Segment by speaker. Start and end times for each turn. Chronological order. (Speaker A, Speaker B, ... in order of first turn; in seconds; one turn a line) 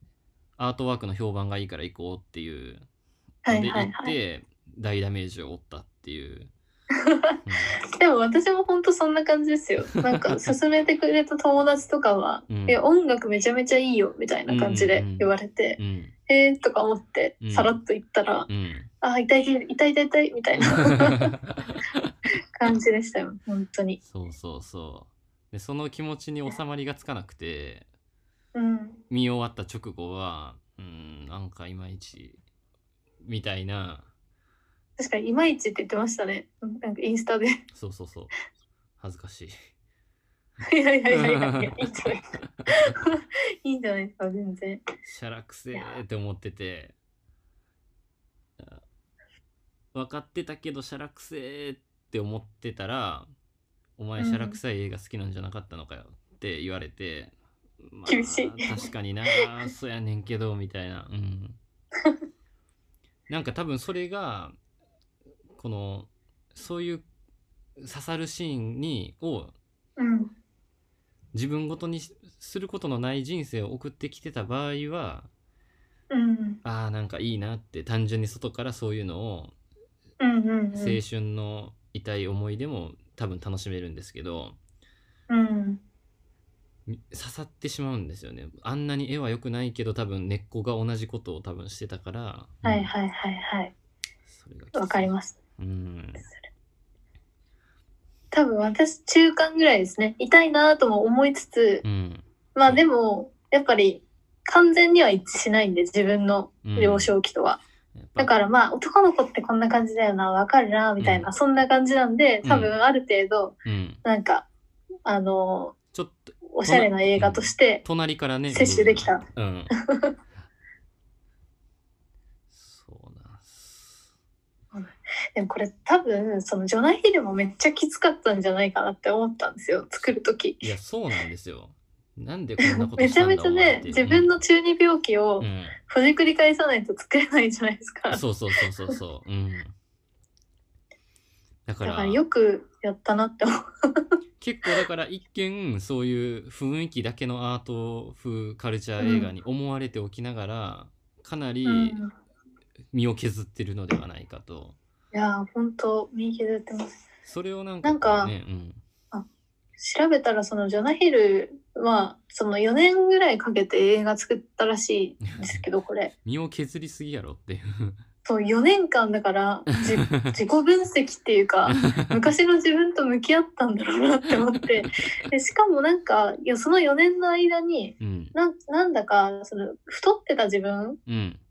Speaker A: 0.6-2.9
Speaker B: 3.4-4.1
Speaker A: 3.5-6.5
Speaker B: 7.0-18.5
Speaker A: 7.5-7.8
Speaker A: 9.8-10.3
Speaker A: 12.5-12.8
Speaker A: 14.5-16.1
Speaker A: 17.4-17.7
Speaker A: 18.5-18.9
Speaker B: 19.0-21.3
Speaker A: 20.6-22.1
Speaker B: 22.5-24.0
Speaker A: 24.0-27.9
Speaker B: 28.5-29.0
Speaker A: 29.1-32.4
Speaker A: 33.2-34.1
Speaker B: 35.0-37.6
Speaker A: 37.7-38.3
Speaker A: 39.0-39.5
Speaker B: 40.6-44.8
Speaker A: 41.1-42.9
Speaker A: 45.0-46.9
Speaker B: 45.7-46.0
Speaker A: 49.9-53.3
Speaker A: 54.0-61.6
Speaker B: 54.2-54.6
Speaker B: 58.1-59.5
Speaker A: 63.3-64.5
Speaker A: 65.5-67.0
Speaker A: 67.8-69.5
Speaker B: 70.0-70.3
Speaker A: 71.3-75.3
Speaker B: 76.1-76.6
Speaker A: 76.6-79.5
Speaker B: 80.2-81.0
Speaker A: 80.7-84.6
Speaker B: 85.3-85.8
Speaker A: 86.9-92.9
Speaker B: 92.6-93.7
Speaker A: 94.3-96.3
Speaker B: 94.7-95.3
Speaker B: 98.3-101.8
Speaker A: 101.8-102.8
Speaker B: 102.5-107.6
Speaker A: 106.6-107.1
Speaker A: 108.0-108.3
Speaker B: 108.2-114.5
Speaker A: 111.0-111.3
Speaker A: 112.4-112.7
Speaker A: 113.6-114.0
Speaker B: 115.0-115.8
Speaker A: 115.9-119.7
Speaker B: 116.5-117.8
Speaker B: 118.5-119.2
Speaker B: 119.9-120.1
Speaker A: 122.5-124.1
Speaker B: 124.7-130.7
Speaker A: 130.0-134.4
Speaker B: 132.6-138.2
Speaker A: 135.4-135.8
Speaker A: 138.1-139.7
Speaker A: 141.7-142.2
Speaker B: 141.8-144.0
Speaker A: 144.4-152.0
Speaker B: 149.0-149.3
Speaker B: 151.6-152.1
Speaker A: 152.9-154.8
Speaker B: 155.1-157.0
Speaker A: 157.2-158.8
Speaker B: 157.8-158.3
Speaker B: 159.8-166.1
Speaker A: 165.3-165.6
Speaker A: 166.2-168.0
Speaker B: 168.2-181.0
Speaker A: 169.8-170.4
Speaker A: 171.7-172.3
Speaker A: 178.0-178.3
Speaker A: 181.1-181.4